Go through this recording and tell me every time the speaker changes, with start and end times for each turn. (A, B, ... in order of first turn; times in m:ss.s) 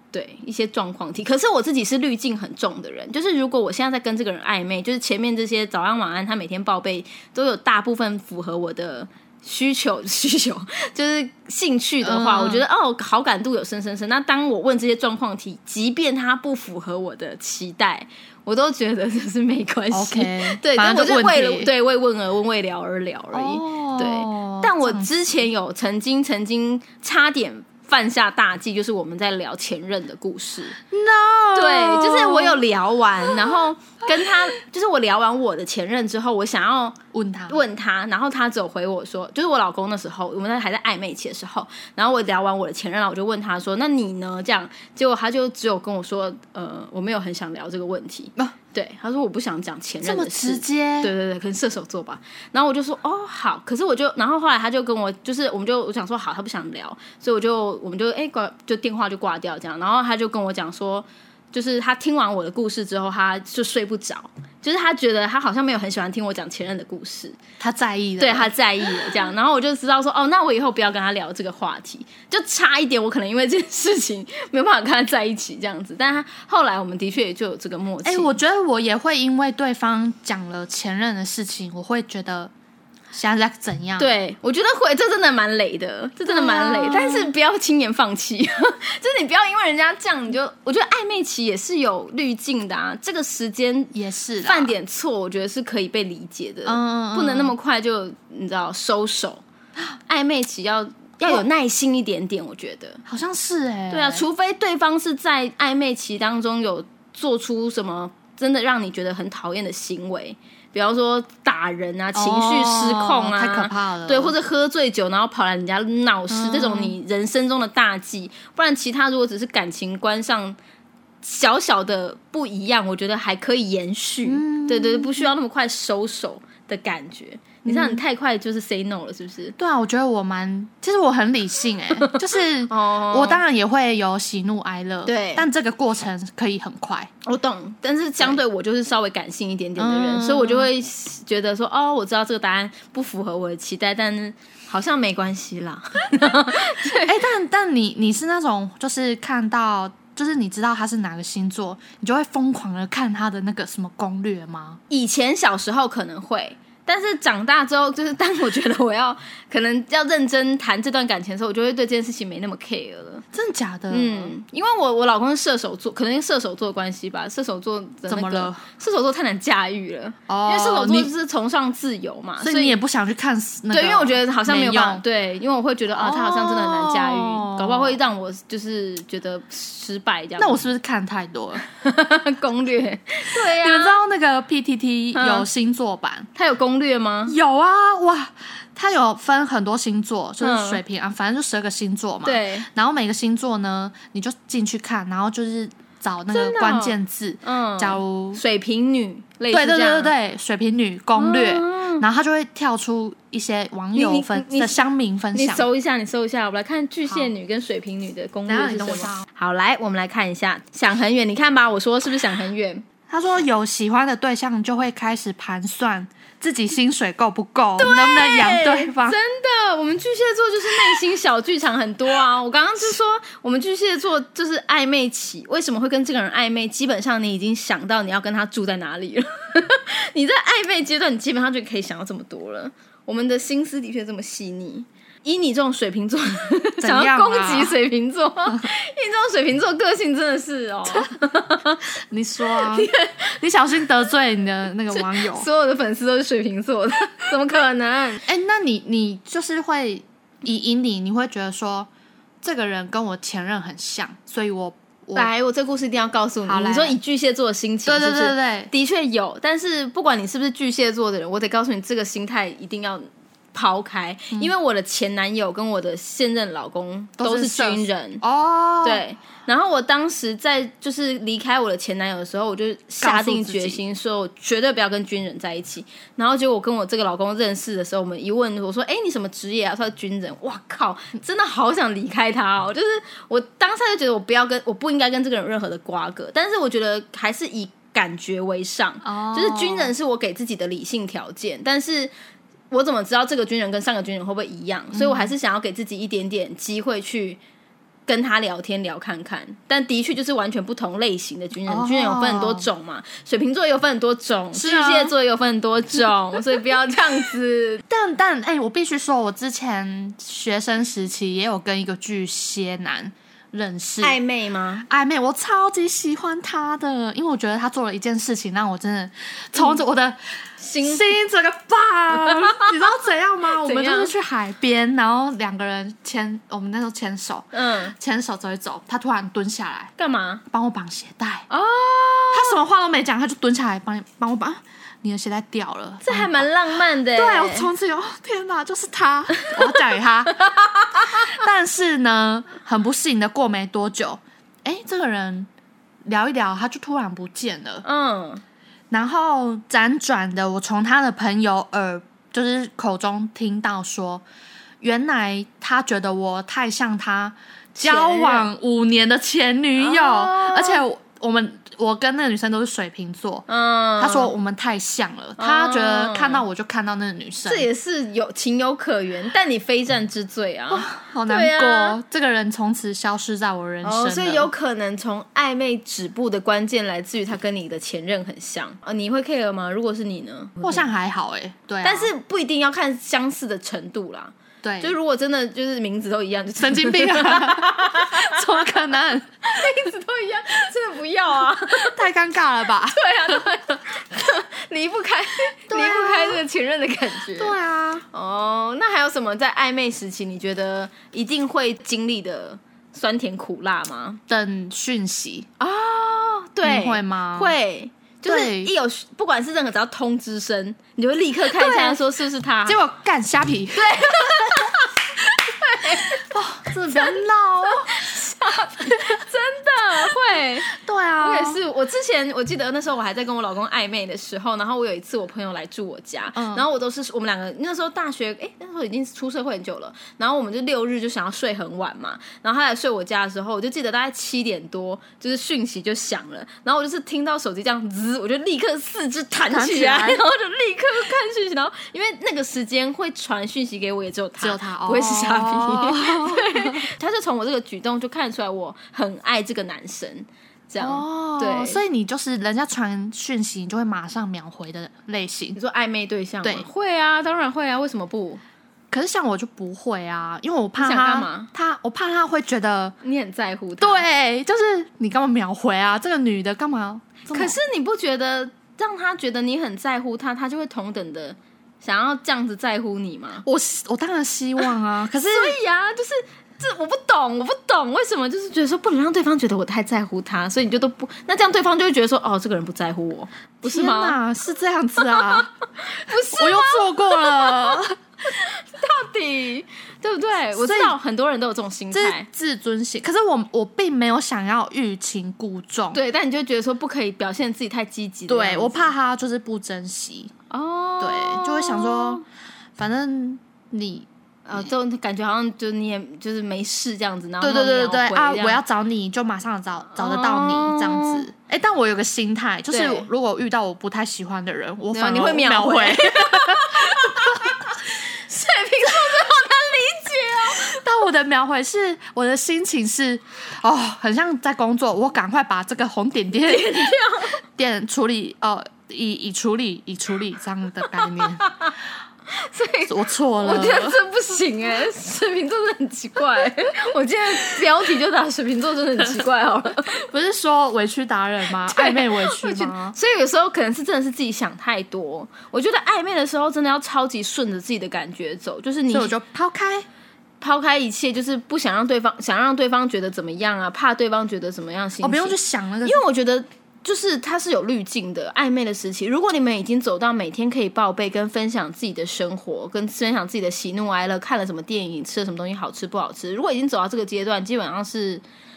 0:00.1-0:30.8 A
0:12.0-0:12.6 B
0:19.9-0:21.7 B
0:23.3-0:25.1 B
0:30.9-0:32.6 B
0:31.5-0:37.0 A
0:37.1-0:37.6 B
0:37.5-1:07.4 A
0:50.0-0:51.1 B
1:07.6-1:08.5 B
1:08.2-1:18.4 A
1:18.0-1:22.5 B
1:23.1-1:24.1 B
1:24.0-1:39.4 A
1:26.2-1:27.3 B
1:33.9-1:34.7 B
1:36.6-1:37.6 B
1:40.1-1:43.0 A
1:43.1-1:44.2 B
1:43.9-2:00.6 A
1:52.1-1:54.3 B
1:56.3-1:56.9 B
2:01.2-2:09.5 A
2:04.2-2:05.3 B
2:07.6-2:08.0 B
2:09.6-2:17.1 B
2:12.0-2:13.4 A
2:15.0-2:15.4 A
2:17.2-2:27.2 A
2:19.8-2:20.7 B
2:26.8-2:34.8 B
2:34.9-2:43.2 A
2:43.3-2:44.3 B
2:43.9-2:52.8 A
2:48.1-2:48.6 B
2:50.3-2:51.1 B
2:52.4-2:55.0 B
2:53.7-3:00.6 A
2:55.9-2:58.0 B
3:00.4-3:01.6 B
3:01.6-3:04.0 A
3:03.4-3:06.3 B
3:05.1-3:05.5 A
3:06.3-3:07.4 A
3:07.3-3:18.4 B
3:10.4-3:10.8 A
3:12.2-3:12.7 A
3:16.3-3:20.1 A
3:19.5-3:25.6 B
3:21.2-3:22.0 A
3:23.9-3:24.8 A
3:25.3-3:32.8 A
3:28.5-3:29.2 B
3:33.1-3:39.2 B
3:37.8-4:01.8 A
3:56.8-3:57.8 B
4:02.1-4:05.5 B
4:02.4-4:03.4 A
4:04.9-4:08.2 A
4:08.2-4:11.9 B
4:12.4-4:15.3 B
4:15.1-4:28.2 A
4:16.4-4:17.0 B
4:17.8-4:18.7 B
4:27.2-4:29.0 B
4:28.8-4:52.1 A
4:33.0-4:33.8 B
4:49.0-4:49.9 B
4:52.7-4:57.4 A
4:54.9-4:55.3 B
4:58.0-5:07.8 A
5:01.6-5:02.7 B
5:04.5-5:05.1 B
5:07.9-5:14.2 B
5:14.0-5:14.8 A
5:14.9-5:29.9 B
5:20.6-5:21.1 A
5:22.1-5:22.6 A
5:23.5-5:24.2 A
5:27.5-5:27.9 A
5:30.0-5:30.4 A
5:30.5-5:31.5 B
5:31.5-5:32.6 A
5:32.3-5:36.5 B
5:36.0-5:37.7 A
5:37.1-5:45.5 B
5:40.4-5:41.3 A
5:46.0-5:47.8 B
5:47.8-5:48.4 A
5:48.9-5:54.2 B
5:54.8-6:03.5 B
5:57.8-5:58.5 A
5:59.8-6:00.8 A
6:03.5-6:04.3 A
6:04.0-6:07.7 B
6:05.4-6:06.4 A
6:07.4-6:12.0 A
6:10.7-6:14.5 B
6:13.8-6:20.9 A
6:20.6-6:22.1 B
6:21.8-6:28.8 A
6:24.6-6:25.0 B
6:26.6-6:29.4 B
6:29.4-6:32.1 A
6:31.8-6:33.4 B
6:32.8-6:37.6 A
6:35.7-6:36.4 B
6:37.4-6:38.0 B
6:38.1-6:44.2 A
6:44.3-6:45.5 B
6:45.6-6:52.8 A
6:46.6-6:47.5 B
6:48.3-6:48.7 B
6:51.4-6:52.0 B
6:52.6-6:54.4 B
6:53.7-6:56.3 A
6:56.1-6:58.0 B
6:56.9-7:31.8 A
7:00.7-7:01.6 B
7:06.4-7:06.6 B
7:19.5-7:20.2 B
7:24.4-7:26.8 B
7:30.8-7:35.6 B
7:35.5-7:38.4 A
7:38.9-7:42.9 B
7:40.8-7:41.5 A
7:43.0-7:44.0 A
7:43.8-7:47.6 B
7:47.3-7:53.4 A
7:53.4-7:55.6 B
7:55.2-8:04.2 A
8:03.6-8:05.5 B
8:05.0-8:12.2 A
8:06.3-8:08.0 B
8:10.5-8:10.9 B
8:11.9-8:16.0 B
8:15.9-8:18.9 A
8:18.3-8:20.3 B
8:20.5-8:22.2 A
8:21.0-8:22.2 B
8:22.8-8:24.1 B
8:24.4-8:28.6 A
8:27.4-8:37.5 B
8:29.9-8:31.3 A
8:32.7-8:33.1 A
8:34.9-8:40.8 A
8:40.6-8:46.9 B
8:46.4-8:47.4 A
8:47.6-8:51.5 B
8:50.8-8:51.7 A
8:52.3-9:00.0 A
8:52.8-8:54.0 B
8:59.9-9:03.0 B
9:01.4-9:09.1 A
9:08.9-9:09.8 B
9:10.4-9:28.2 A
9:15.0-9:16.0 B